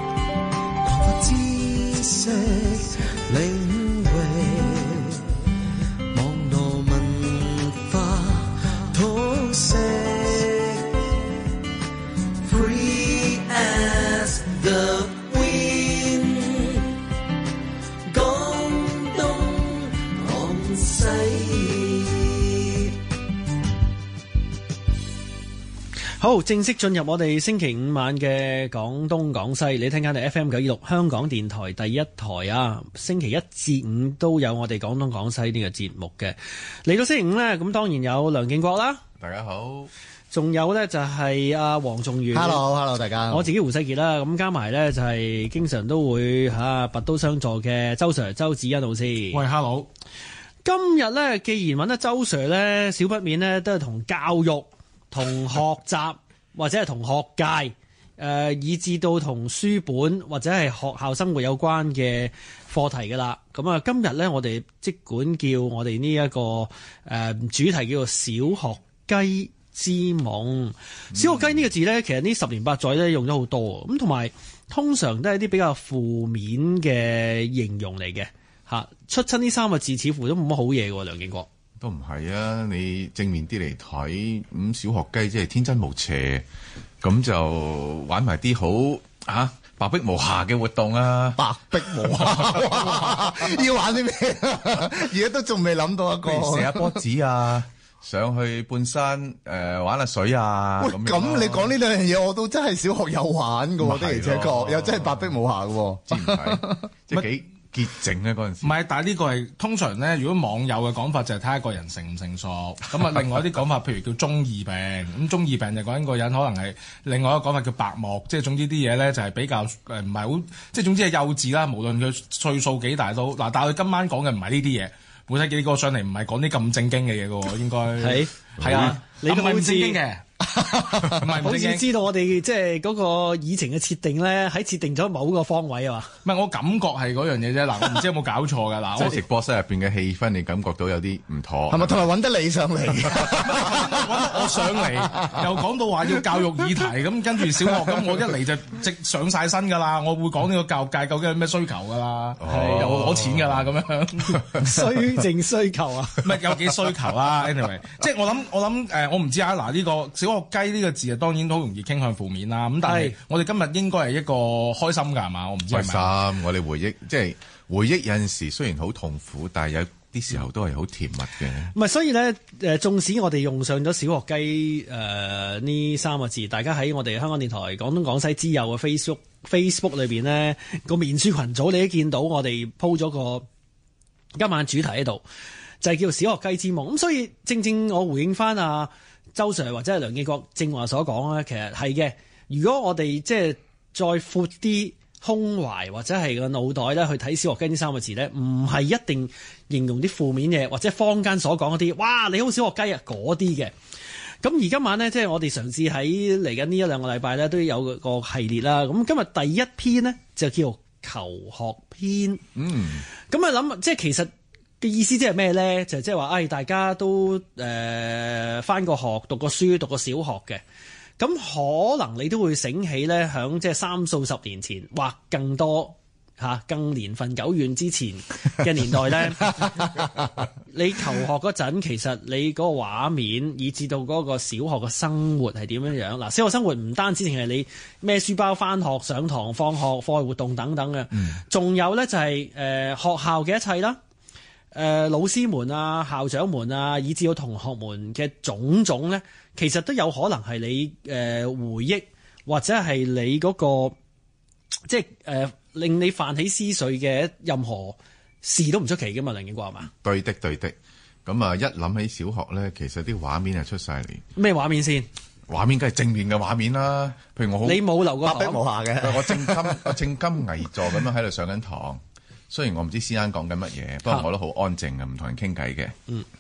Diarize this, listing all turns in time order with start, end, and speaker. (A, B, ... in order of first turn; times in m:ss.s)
0:00.8-0:05.2 A
0:06.1-0:10.9 A
0:12.4-0:16.9 A
0:18.1-0:22.9 A
0:26.2-0:39.0 B
0:39.2-0:39.9 C
0:40.3-0:42.7 B
0:42.3-0:43.5 D
0:43.3-0:49.4 B
0:49.3-0:49.9 E
0:50.6-1:21.5 B
1:21.8-1:26.4 C
1:27.0-1:31.4 C
1:31.4-1:37.0 D
1:32.1-1:33.2 C
1:36.2-1:41.8 C
1:40.8-1:47.2 D
1:43.8-1:45.3 C
1:46.1-1:48.8 C
1:48.6-2:10.2 E
2:08.0-2:10.0 B
2:08.6-2:08.9 C
2:10.6-2:11.2 D
2:10.8-2:11.8 E
2:11.4-2:16.1 B
2:16.2-2:19.2 E
2:19.0-2:22.1 C
2:21.7-2:25.5 D
2:23.3-2:34.5 E
2:32.4-2:33.8 C
2:34.4-2:34.8 C
2:34.6-2:36.2 B
2:36.2-2:46.2 E
2:42.8-2:43.2 B
2:45.7-2:51.7 C
2:51.7-3:03.5 B
3:04.4-3:05.2 B
3:05.8-3:23.7 B
3:24.4-3:32.4 B
3:32.6-3:33.0 C
3:33.2-3:40.6 B
3:41.2-3:50.0 B
3:50.7-4:04.0 B
4:04.7-4:14.0 B
4:14.9-4:19.9 B
4:20.0-4:20.8 C
4:21.3-4:24.2 C
4:24.4-4:25.1 B
4:25.5-4:28.0 C
4:27.6-4:28.6 B
4:28.2-4:30.0 D
4:29.0-4:36.0 C